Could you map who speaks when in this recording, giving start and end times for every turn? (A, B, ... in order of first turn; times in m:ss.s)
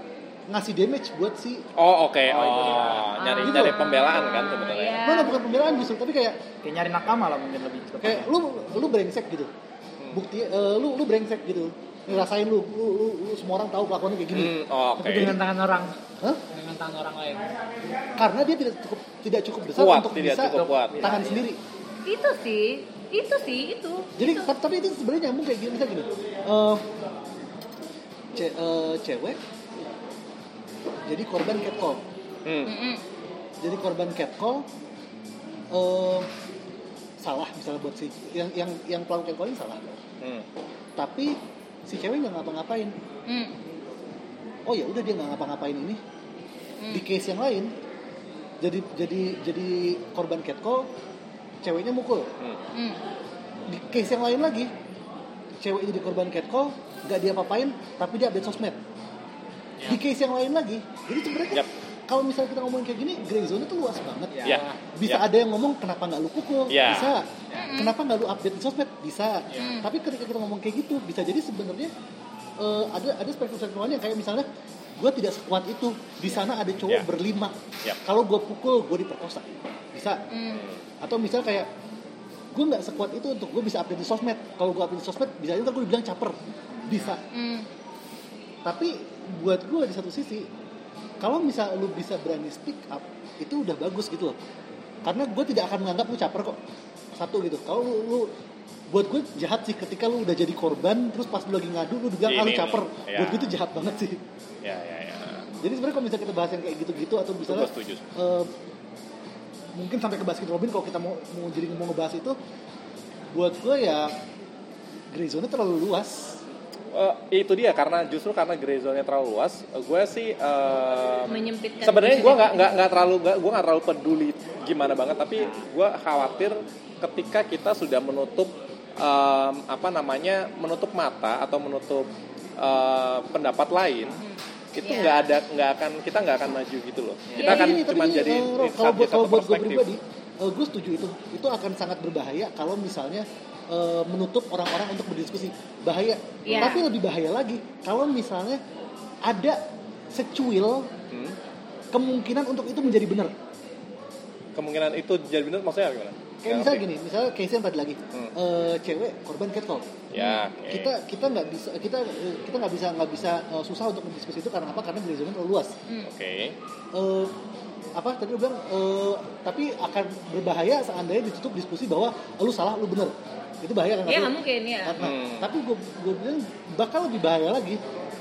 0:00.5-0:01.6 A
0:01.8-0:05.0 B
0:02.3-0:03.1 C
0:03.2-0:05.4 D
0:03.4-0:03.8 A
0:05.0-0:06.4 A
0:06.6-0:08.3 C
0:08.0-0:09.5 A
0:10.1-0:15.4 A
0:14.3-0:15.4 B
0:15.1-0:15.9 E
0:16.5-0:17.5 E
0:18.2-0:21.6 A
0:19.7-0:21.1 B
0:20.5-0:21.4 C
0:22.0-0:24.5 D
0:24.2-0:26.8 A
0:28.3-0:29.4 A
0:31.0-0:32.0 A
0:32.4-0:32.7 B
0:32.6-0:33.0 D
0:33.6-0:34.7 A
0:35.7-0:36.3 A
0:37.2-0:39.8 A
0:41.0-0:43.0 A
0:43.3-0:43.5 D
0:44.6-0:46.0 A
0:46.8-0:47.0 D
0:46.9-0:47.7 A
0:48.6-0:50.9 A
0:51.6-0:52.3 A
0:52.7-0:53.0 D
0:53.7-0:54.7 A
0:55.6-0:58.8 A
0:59.8-1:11.9 A
1:04.3-1:04.6 C
1:04.4-1:05.2 B
1:04.5-1:04.8 E
1:06.7-1:07.1 B
1:07.5-1:07.9 D
1:09.5-1:09.9 D
1:12.6-1:14.4 A
1:15.0-1:20.2 A
1:20.3-1:20.6 D
1:20.5-1:20.8 B
1:21.0-1:21.7 A
1:22.5-1:27.2 A
1:27.3-1:27.7 D
1:28.6-1:30.5 A
1:31.2-1:34.4 A
1:35.0-1:36.6 A
1:37.1-1:38.3 A
1:38.9-1:44.2 A
1:42.2-1:43.5 B
1:44.6-1:45.5 B
1:45.6-1:48.5 A
1:47.4-1:48.0 B
1:49.8-1:52.4 A
1:53.3-1:54.2 A
1:55.1-1:56.4 A
1:56.9-2:14.2 B
2:01.3-2:02.8 D
2:14.2-2:15.3 D
2:14.7-2:19.8 B
2:17.4-2:17.8 D
2:17.4-2:28.6 A
2:26.4-2:26.8 D
2:29.2-2:29.6 A
2:30.1-2:30.9 A
2:31.1-2:31.4 B
2:31.9-2:33.3 A
2:34.6-2:36.8 B
2:36.4-2:40.0 A
2:40.1-2:40.9 B
2:40.6-2:45.7 A
2:46.1-2:46.5 B
2:46.9-2:47.3 A
2:48.0-2:57.8 A
2:54.0-2:55.0 D
2:55.0-2:55.5 B